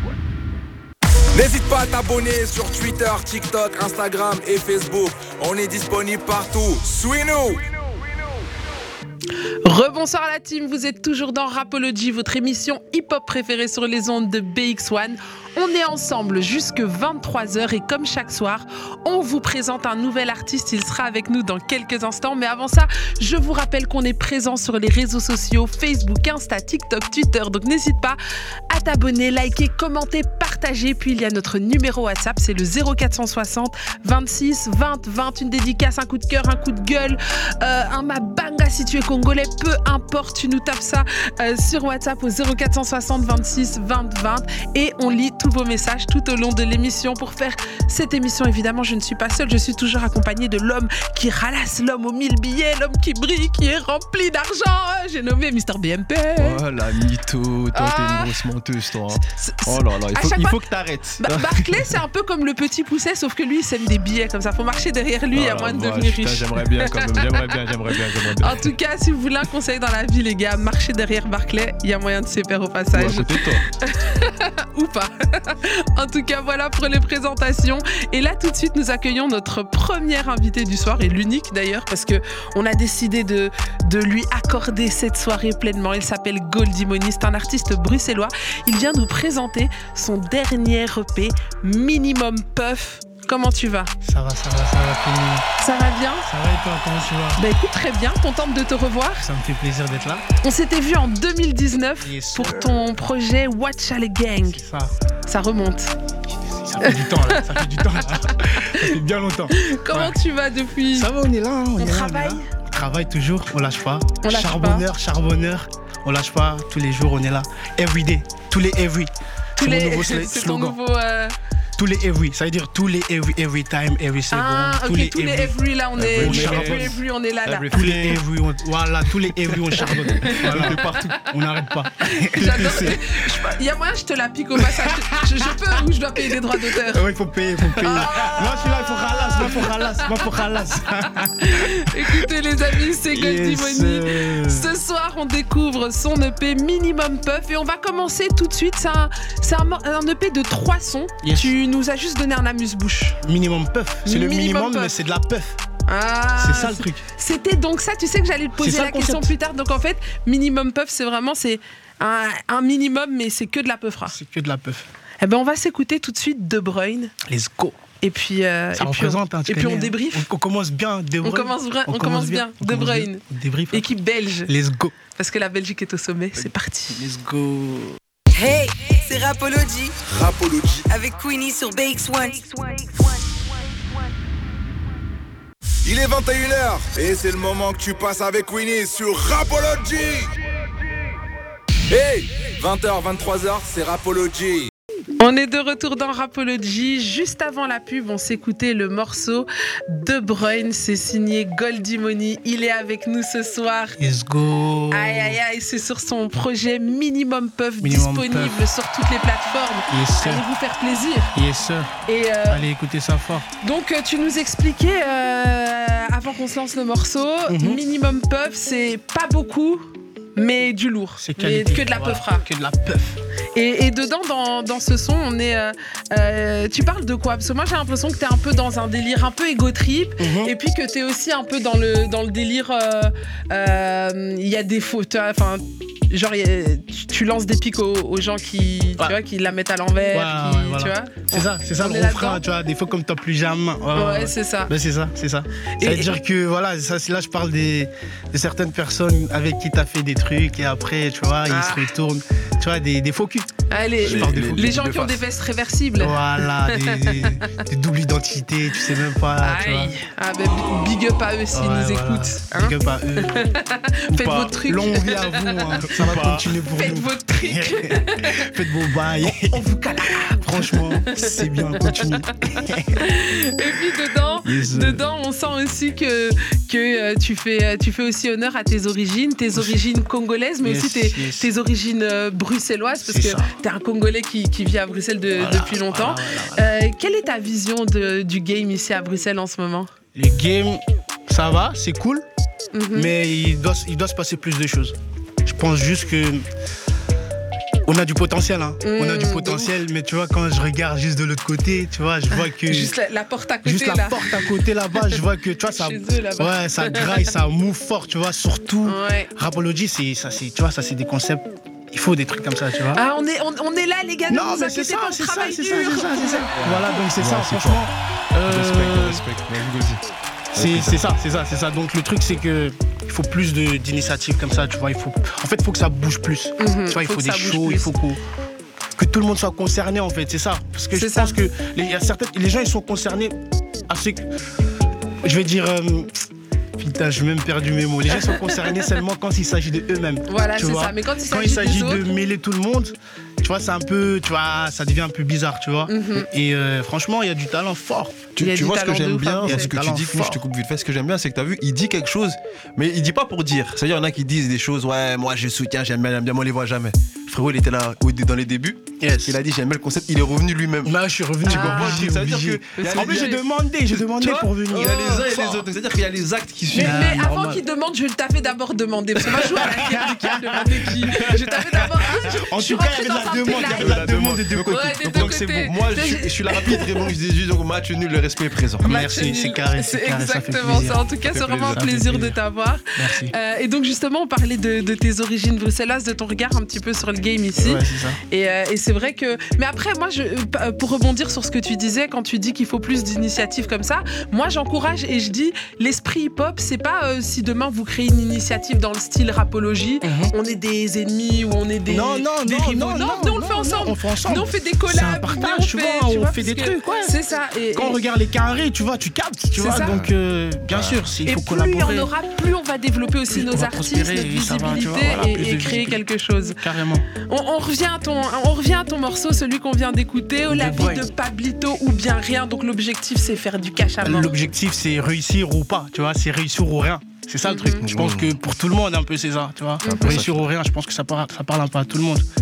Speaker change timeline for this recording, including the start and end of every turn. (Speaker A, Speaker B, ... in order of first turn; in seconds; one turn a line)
Speaker A: 1.3-7.7
Speaker B: 9.6-28.2
Speaker B: 28.7-56.6
Speaker C: 56.4-62.0
Speaker B: 57.7-58.4
Speaker B: 59.1-60.6
Speaker B: 61.2-93.9
Speaker C: 65.3-68.7
Speaker C: 72.9-73.7
Speaker D: 94.0-95.5
Speaker B: 95.6-96.3
Speaker D: 96.2-97.4
Speaker B: 97.4-99.3
Speaker D: 99.2-100.3
Speaker B: 100.4-104.6
Speaker D: 102.0-102.9
Speaker D: 104.4-104.9
Speaker B: 105.3-106.0
Speaker D: 106.3-110.2
Speaker B: 106.8-109.0
Speaker B: 109.5-111.1
Speaker D: 110.9-120.8
Speaker B: 111.8-112.5
Speaker B: 114.2-114.8
Speaker B: 119.6-121.4
Speaker D: 121.8-125.6
Speaker B: 124.3-127.7
Speaker C: 126.0-128.2
Speaker D: 126.2-127.0
Speaker D: 127.7-133.3
Speaker C: 129.3-131.3
Speaker B: 129.8-131.1
Speaker B: 132.0-137.1
Speaker C: 132.4-132.9
Speaker D: 136.9-144.7
Speaker B: 137.8-140.3
Speaker B: 141.3-153.2
Speaker D: 151.2-151.5
Speaker D: 153.2-155.6
Speaker B: 154.1-155.0
Speaker B: 155.9-164.2
Speaker D: 156.4-157.0
Speaker D: 158.6-159.3
Speaker D: 164.1-164.9
Speaker B: 165.2-167.1
Speaker D: 167.2-167.8
Speaker B: 168.0-170.3
Speaker D: 168.8-173.9
Speaker B: 171.2-174.5
Speaker D: 174.5-174.9
Speaker B: 175.2-177.1
Speaker D: 176.9-178.0
Speaker E: 178.3-180.0
Speaker A: 180.1-180.9
Speaker E: 180.9-183.9
Speaker A: 185.8-190.3
Speaker A: 191.9-194.7
Speaker B: 195.2-204.0
Speaker D: 204.0-205.4
Speaker B: 204.9-211.3
Speaker D: 207.8-208.7
Speaker D: 209.9-210.5
Speaker D: 211.3-213.5
Speaker B: 212.1-212.7
Speaker B: 213.6-222.5
Speaker D: 217.5-217.8
Speaker D: 221.2-223.2
Speaker B: 223.6-242.4
Speaker D: 230.2-230.5
Speaker D: 240.1-254.7
Speaker B: 243.9-244.7
Speaker B: 245.7-246.1
Speaker B: 251.5-251.9
Speaker B: 253.7-257.6
Speaker C: 254.0-255.2
Speaker D: 256.0-259.9
Speaker B: 259.4-265.9
Speaker D: 261.5-263.4
Speaker C: 264.1-264.6
Speaker D: 264.5-269.7
Speaker C: 265.8-266.6
Speaker B: 266.7-268.5
Speaker B: 269.2-272.3
Speaker D: 270.2-273.1
Speaker B: 273.0-289.9
Speaker D: 274.4-275.0
Speaker D: 280.6-281.5
Speaker D: 283.0-283.5
Speaker D: 285.4-286.7
Speaker D: 290.1-292.3
Speaker B: 292.7-293.1
Speaker D: 292.9-296.4
Speaker D: 297.9-302.9
Speaker B: 298.8-299.7
Speaker B: 302.4-307.3
Speaker D: 303.6-313.0
Speaker B: 308.9-309.3
Speaker B: 312.9-316.5
Speaker D: 314.3-319.2
Speaker C: 316.5-317.8
Speaker C: 318.4-320.0
Speaker D: 320.5-328.2
Speaker C: 320.6-321.0
Speaker B: 326.6-327.9
Speaker D: 329.0-333.4
Speaker B: 330.9-331.4
Speaker D: 333.9-334.3
Speaker D: 335.2-336.1
Speaker D: 336.8-348.3
Speaker B: 338.1-338.9
Speaker B: 340.3-342.1
Speaker B: 345.9-346.3
Speaker C: 348.4-363.4
Speaker B: 348.4-349.7
Speaker D: 349.4-350.4
Speaker D: 359.0-359.4
Speaker D: 360.8-365.7
Speaker B: 361.5-362.1
Speaker B: 362.8-363.4
Speaker C: 363.9-367.2
Speaker B: 364.7-365.2
Speaker D: 366.7-367.6
Speaker B: 366.7-374.1
Speaker C: 369.3-369.7
Speaker D: 369.3-375.7
Speaker C: 371.1-371.6
Speaker C: 373.6-378.9
Speaker B: 374.6-376.9
Speaker D: 378.8-381.0
Speaker B: 378.8-408.0
Speaker C: 381.3-382.0
Speaker D: 381.6-382.4
Speaker D: 383.0-383.3
Speaker D: 387.6-388.2
Speaker D: 400.0-400.3
Speaker D: 401.9-407.2
Speaker D: 407.7-412.1
Speaker B: 409.6-410.0
Speaker C: 409.7-410.1
Speaker C: 410.7-411.0
Speaker B: 411.3-416.6
Speaker D: 413.3-416.0
Speaker D: 416.6-417.1
Speaker B: 417.2-424.4
Speaker D: 420.5-421.1
Speaker D: 424.0-432.3
Speaker B: 427.4-427.8
Speaker C: 427.8-428.3
Speaker B: 429.8-430.1
Speaker C: 429.9-430.5